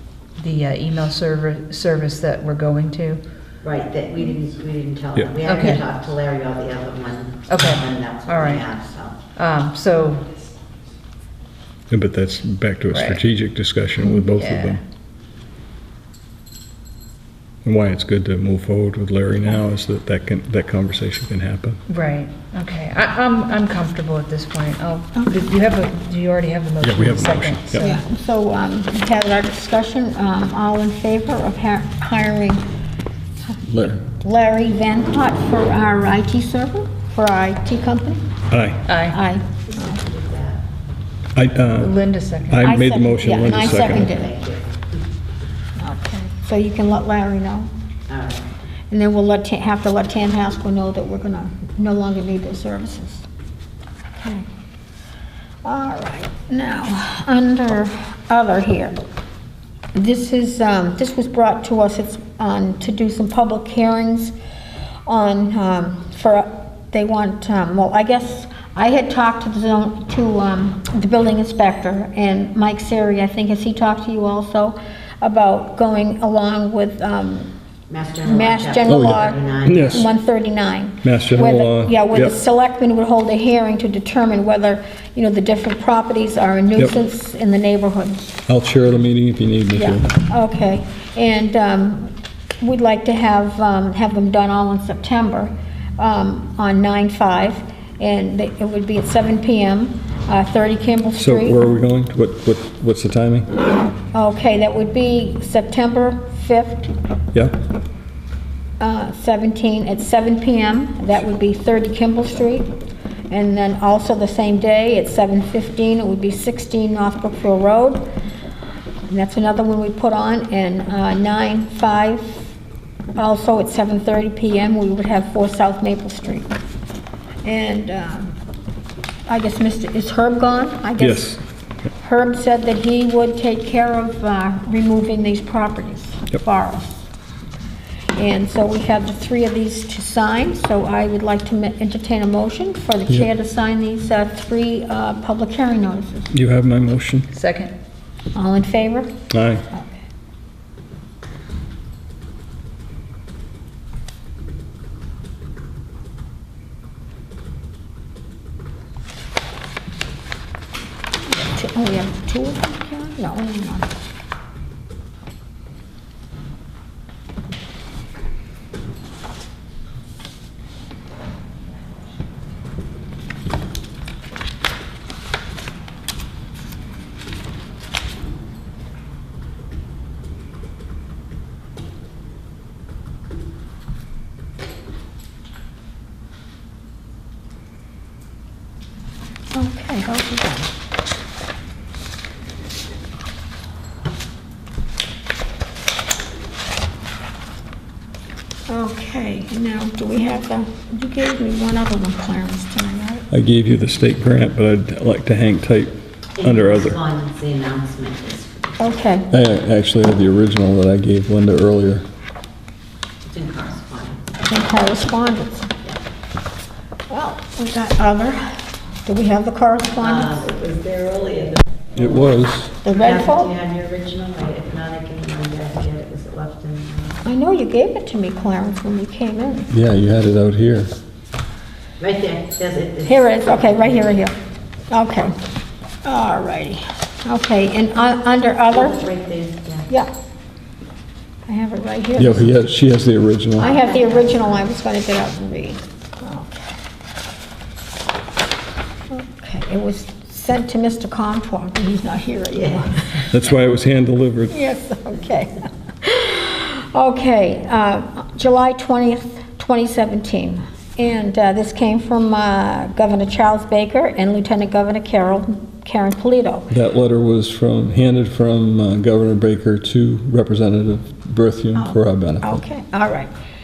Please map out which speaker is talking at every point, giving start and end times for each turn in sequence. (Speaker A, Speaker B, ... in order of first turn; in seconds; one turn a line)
Speaker A: 0.3-3.2
Speaker B: 3.6-9.2
Speaker A: 5.4-5.8
Speaker A: 7.5-8.7
Speaker A: 9.3-10.2
Speaker C: 11.9-14.8
Speaker A: 12.9-13.2
Speaker A: 14.0-14.8
Speaker C: 17.6-21.8
Speaker A: 21.9-28.0
Speaker C: 26.8-27.8
Speaker D: 27.8-32.6
Speaker C: 33.6-34.0
Speaker D: 34.2-38.2
Speaker C: 38.5-38.8
Speaker A: 38.9-39.2
Speaker D: 39.1-40.0
Speaker B: 39.7-40.6
Speaker C: 41.3-41.9
Speaker A: 41.8-42.8
Speaker C: 42.5-44.1
Speaker D: 42.6-44.3
Speaker B: 43.4-44.6
Speaker D: 45.8-47.7
Speaker B: 48.1-48.4
Speaker D: 48.9-53.2
Speaker D: 54.2-54.5
Speaker D: 55.6-59.0
Speaker D: 59.9-64.3
Speaker D: 65.0-77.5
Speaker B: 77.9-80.0
Speaker D: 78.2-88.4
Speaker C: 78.9-80.0
Speaker C: 81.0-82.3
Speaker C: 88.5-90.0
Speaker D: 89.7-101.6
Speaker C: 101.2-103.5
Speaker D: 104.1-106.9
Speaker D: 108.8-112.7
Speaker D: 113.3-118.1
Speaker D: 119.1-122.5
Speaker D: 123.2-126.5
Speaker D: 127.4-128.3
Speaker D: 129.3-131.3
Speaker C: 131.0-131.4
Speaker D: 132.0-137.1
Speaker D: 138.2-146.3
Speaker C: 146.3-147.3
Speaker A: 147.3-147.7
Speaker D: 148.3-149.1
Speaker C: 149.3-149.7
Speaker D: 161.3-163.9
Speaker D: 189.5-190.7
Speaker D: 198.7-203.2
Speaker C: 203.3-207.0
Speaker B: 206.4-208.7
Speaker D: 208.8-209.3
Speaker C: 209.3-212.1
Speaker B: 213.2-214.2
Speaker D: 214.4-215.7
Speaker D: 217.1-220.5
Speaker B: 220.0-222.3
Speaker C: 221.9-222.7
Speaker D: 222.8-223.5
Speaker B: 222.9-227.2
Speaker D: 227.2-229.7
Speaker C: 229.7-230.9
Speaker B: 232.0-234.1
Speaker D: 233.1-234.3
Speaker D: 234.9-235.3
Speaker D: 236.0-239.1
Speaker B: 238.7-239.9
Speaker D: 241.5-242.5
Speaker C: 242.2-243.7
Speaker D: 243.6-246.7
Speaker B: 243.6-244.7
Speaker D: 249.1-253.3
Speaker B: 252.6-252.8
Speaker C: 253.3-254.6
Speaker D: 254.5-266.7
Speaker C: 266.7-272.6
Speaker D: 271.8-273.3